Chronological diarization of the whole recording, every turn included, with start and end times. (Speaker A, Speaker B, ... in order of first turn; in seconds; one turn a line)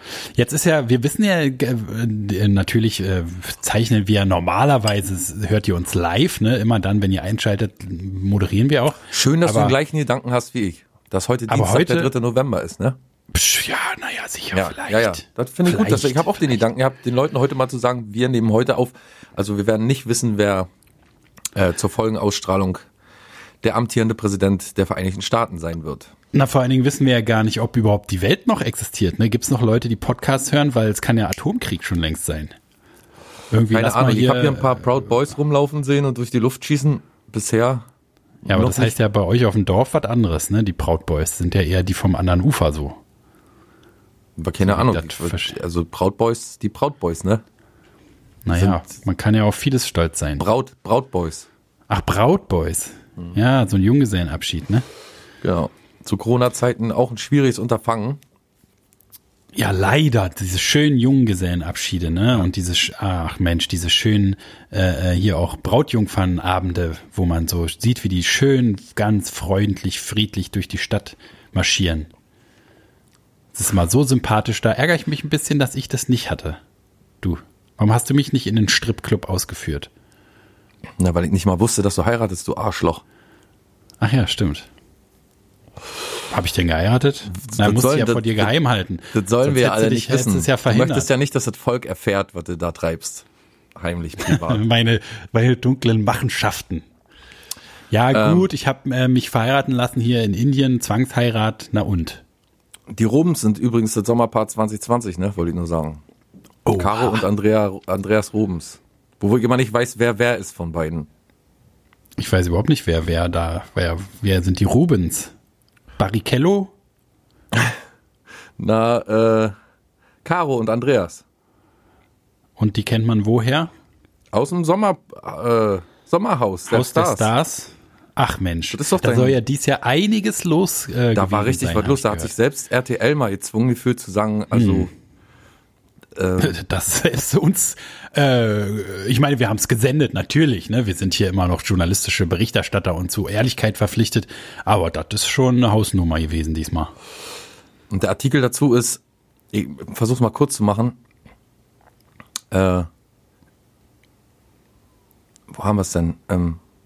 Speaker A: 0.3-9.8
Speaker B: 9.1-13.0
Speaker A: 11.5-12.1
Speaker A: 13.3-16.5
Speaker B: 14.5-20.7
Speaker B: 21.5-22.9
Speaker B: 23.6-26.1
Speaker A: 26.3-32.5
Speaker A: 33.5-35.1
Speaker B: 33.7-37.9
Speaker B: 38.5-39.0
Speaker A: 38.5-43.0
Speaker B: 44.4-47.4
Speaker A: 44.6-45.5
Speaker A: 48.4-50.5
Speaker B: 48.5-48.9
Speaker B: 50.4-51.5
Speaker A: 51.9-54.9
Speaker B: 55.4-58.2
Speaker A: 59.5-72.1
Speaker A: 73.5-76.6
Speaker A: 77.2-79.9
Speaker B: 81.0-83.0
Speaker A: 84.0-84.7
Speaker A: 86.3-91.1
Speaker B: 87.3-88.5
Speaker B: 89.1-94.6
Speaker A: 94.2-96.8
Speaker A: 97.9-102.2
Speaker B: 98.1-98.5
Speaker B: 102.9-106.0
Speaker A: 106.6-107.2
Speaker B: 106.7-111.1
Speaker A: 112.2-115.3
Speaker A: 116.0-116.7
Speaker B: 118.6-119.5
Speaker B: 120.2-121.2
Speaker A: 122.6-123.7
Speaker B: 124.3-127.3
Speaker A: 126.7-132.3
Speaker B: 128.7-129.4
Speaker B: 131.1-134.9
Speaker A: 134.5-134.9
Speaker B: 136.1-136.6
Speaker A: 136.4-146.9
Speaker B: 147.9-151.0
Speaker B: 152.5-152.9
Speaker B: 155.5-156.6